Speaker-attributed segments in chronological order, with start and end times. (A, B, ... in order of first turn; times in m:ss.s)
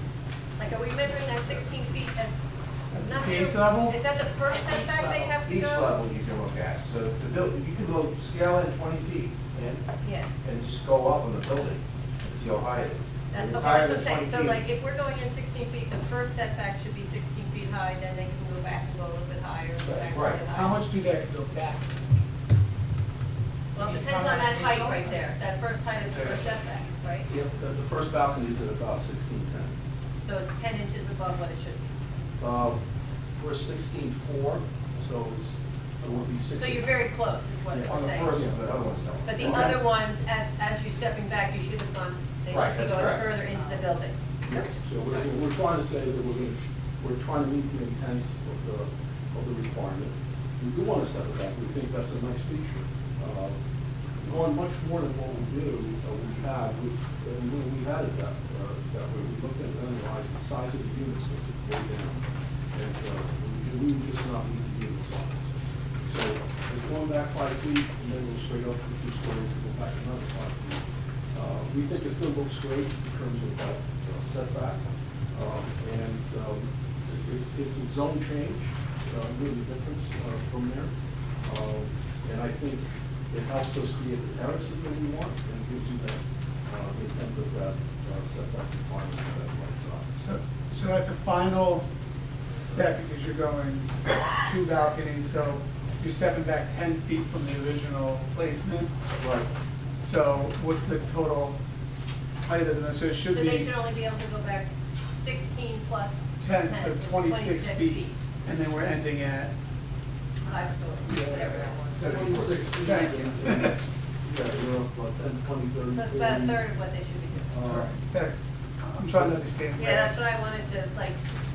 0:00.6-0:02.4 A
0:02.9-0:04.0 B
0:03.0-0:06.0 A
0:05.4-0:09.8 C
0:10.0-0:10.3 A
0:10.4-0:14.6 C
0:13.3-0:20.8 A
0:19.8-0:20.4 C
0:20.5-0:22.0 B
0:23.8-0:27.3 A
0:23.8-0:24.6 B
0:26.1-0:26.4 C
0:27.3-0:29.7 D
0:30.2-0:31.9 A
0:32.4-0:32.8 D
0:33.4-0:36.9 D
0:36.6-0:38.4 A
0:37.7-0:39.8 C
0:37.9-0:39.8 D
0:39.2-0:45.3 A
0:42.5-0:43.3 C
0:44.4-0:53.6 D
0:54.2-1:05.5 D
1:06.0-1:10.8 D
1:11.3-1:20.9 D
1:21.4-1:30.1 D
1:30.2-1:31.9 B
1:32.5-1:38.9 B
1:39.2-1:39.5 D
1:40.0-1:41.6 B
1:42.5-1:43.7 B
1:43.3-1:48.2 A
1:46.4-1:49.5 B
1:50.4-1:52.1 A
1:51.1-1:56.6 D
1:51.9-1:52.8 C
1:52.8-1:53.8 B
1:55.9-1:57.9 A
1:57.5-1:57.9 D
1:58.0-2:00.3 B
1:59.8-2:01.2 A